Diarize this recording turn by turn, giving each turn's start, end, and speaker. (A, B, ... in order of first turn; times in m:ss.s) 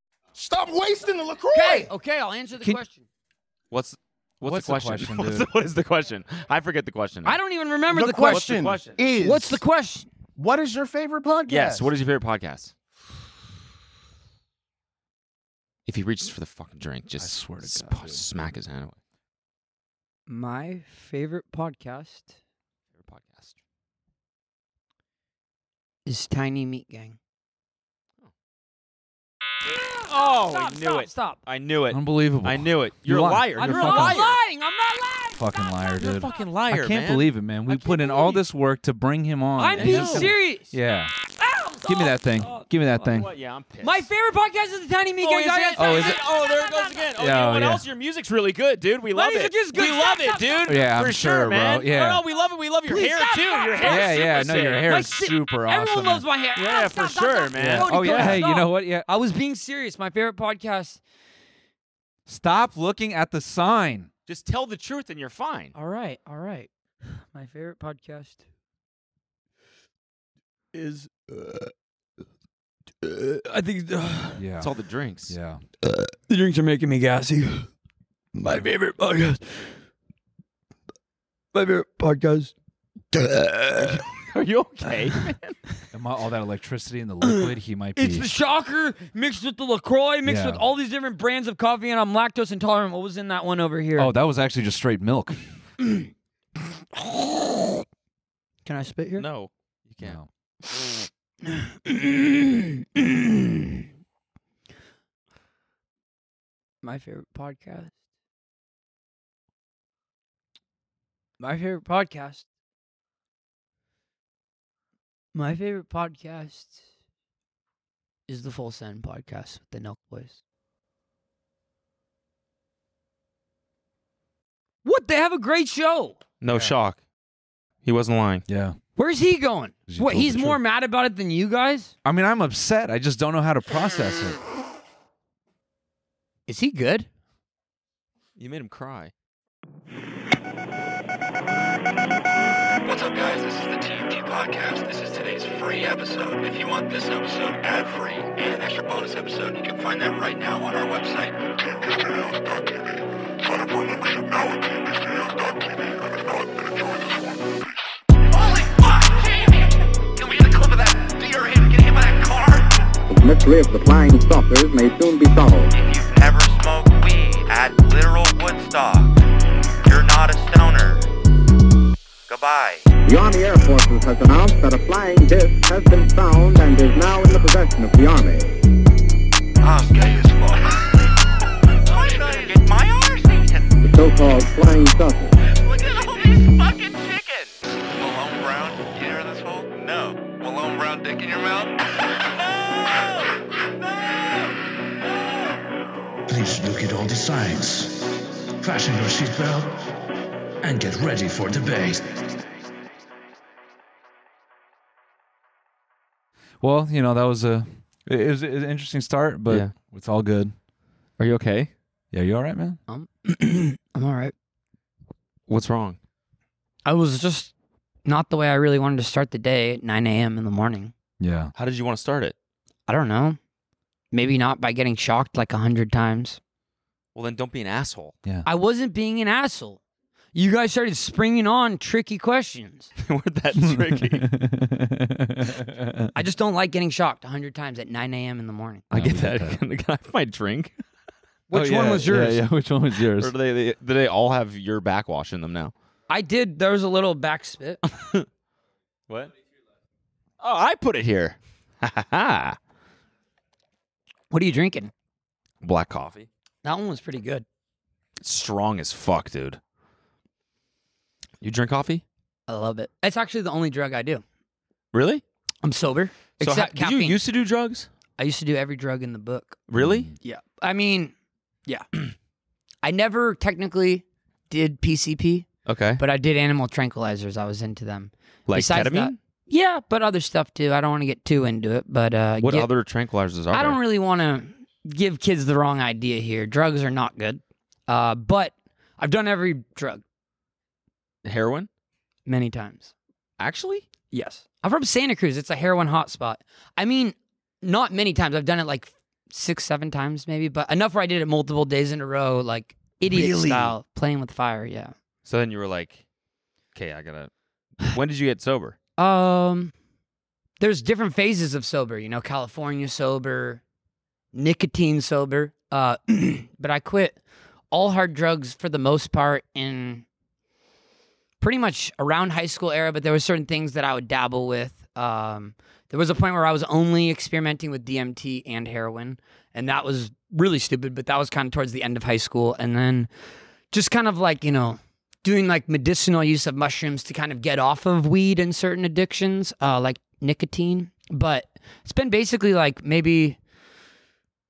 0:00.4-0:01.9 A
0:01.5-0:03.0 B
0:03.7-0:07.4 C
0:04.4-0:05.5 D
0:07.2-0:10.1 B
0:07.9-0:09.6 A
0:08.3-0:09.0 C
0:10.4-0:11.9 A
0:11.5-0:12.7 C
0:15.9-0:19.0 C
0:17.2-0:18.2 D
0:20.3-0:22.3 B
0:23.0-0:23.6 C
0:26.1-0:27.2 B
0:30.0-0:31.4 B
0:30.0-0:34.4 C
0:31.9-0:34.2 D
0:33.6-0:35.4 B
0:35.3-0:41.1 D
0:36.0-0:37.3 C
0:37.7-0:38.4 B
0:39.6-0:40.7 B
0:39.7-0:40.3 C
0:41.4-0:42.6 B
0:41.8-0:43.3 D
0:43.0-0:44.1 C
0:43.8-0:47.0 B
0:45.2-0:54.9 C
0:45.8-0:46.2 D
0:47.2-0:47.8 D
0:49.1-0:50.7 B
0:50.7-0:52.2 D
0:52.9-1:01.0 B
0:53.8-0:56.2 D
0:56.6-0:58.4 C
0:57.6-0:59.1 D
1:02.3-1:04.1 D
1:04.3-1:05.7 C
1:05.8-1:08.4 B
1:10.7-1:11.7 B
1:13.0-1:14.4 B
1:14.4-1:14.7 D
1:14.6-1:15.4 C
1:15.3-1:15.6 D
1:16.3-1:17.7 B
1:18.4-1:19.7 B
1:21.5-1:22.5 B
1:23.1-1:23.9 B
1:23.8-1:25.6 C
1:25.9-1:28.3 D
1:27.2-1:34.1 B
1:30.2-1:30.6 D
1:34.0-1:35.4 D
1:35.8-1:36.1 B
1:37.0-1:37.8 B
1:38.6-1:39.3 B
1:39.2-1:40.2 C
1:40.0-1:40.3 D
1:41.4-1:43.7 B
1:46.8-1:47.9 B
1:51.4-1:52.4 B
1:55.4-1:56.8 B
1:58.3-2:00.4 B
2:04.8-2:06.2 B
2:06.4-2:07.0 C
2:07.8-2:08.4 C
2:08.5-2:08.8 D
2:09.0-2:11.9 B
2:09.9-2:10.6 D
2:12.0-2:14.4 D
2:16.5-2:17.1 B
2:18.4-2:19.1 C
2:22.8-2:31.4 E
2:38.3-2:39.6 E
2:40.2-2:42.7 E
2:43.1-2:45.7 F
2:45.7-2:49.2 E
2:49.8-2:51.1 E
2:52.3-2:52.9 E
2:53.0-2:58.5 F
2:59.6-3:01.2 E
3:01.8-3:03.7 E
3:03.8-3:05.3 F
3:05.5-3:11.8 E
3:16.3-3:19.9 G
3:20.6-3:22.2 G
3:26.6-3:30.5 D
3:29.5-3:29.8 C
3:31.2-3:31.7 C
3:32.1-3:32.8 D
3:32.9-3:34.3 B
3:35.5-3:36.0 C
3:36.8-3:37.5 B
3:38.0-3:40.9 B
3:41.2-3:41.5 D
3:41.6-3:42.4 C
3:42.9-3:43.4 B
3:44.1-3:46.4 B
3:47.2-3:48.2 C
3:48.4-3:49.8 B
3:50.3-3:52.9 B
3:53.0-3:54.2 C
3:53.6-3:56.1 D
3:56.2-3:58.8 B
3:58.9-3:59.6 D
3:58.9-4:00.7 C
4:01.5-4:02.4 B
4:01.5-4:03.3 D
4:03.2-4:05.7 C
4:06.1-4:07.8 B
4:08.0-4:08.3 C
4:10.4-4:12.6 C
4:14.3-4:14.9 B
4:15.6-4:16.3 C
4:16.6-4:17.4 B
4:18.2-4:19.6 C
4:21.4-4:22.0 C
4:22.5-4:24.2 B
4:24.9-4:25.2 C
4:25.6-4:27.2 B
4:26.4-4:27.9 C
4:28.2-4:29.6 B
4:29.7-4:30.1 C
4:29.8-4:30.1 D
4:30.2-4:31.1 B
4:32.8-4:35.5 B
4:35.7-4:36.0 C
4:36.0-4:42.7 B
4:38.5-4:39.2 C
4:42.4-4:43.8 C
4:43.5-4:50.0 B
4:51.2-4:51.7 C
4:52.3-4:52.9 B
4:53.4-4:53.9 C
4:54.1-5:04.9 B
5:03.1-5:03.7 C
5:05.2-5:06.0 C
5:06.7-5:08.8 C
5:09.0-5:09.7 B
5:10.6-5:13.6 B
5:14.3-5:17.2 B
5:17.7-5:20.0 B
5:21.4-5:33.1 B
5:33.7-5:43.4 B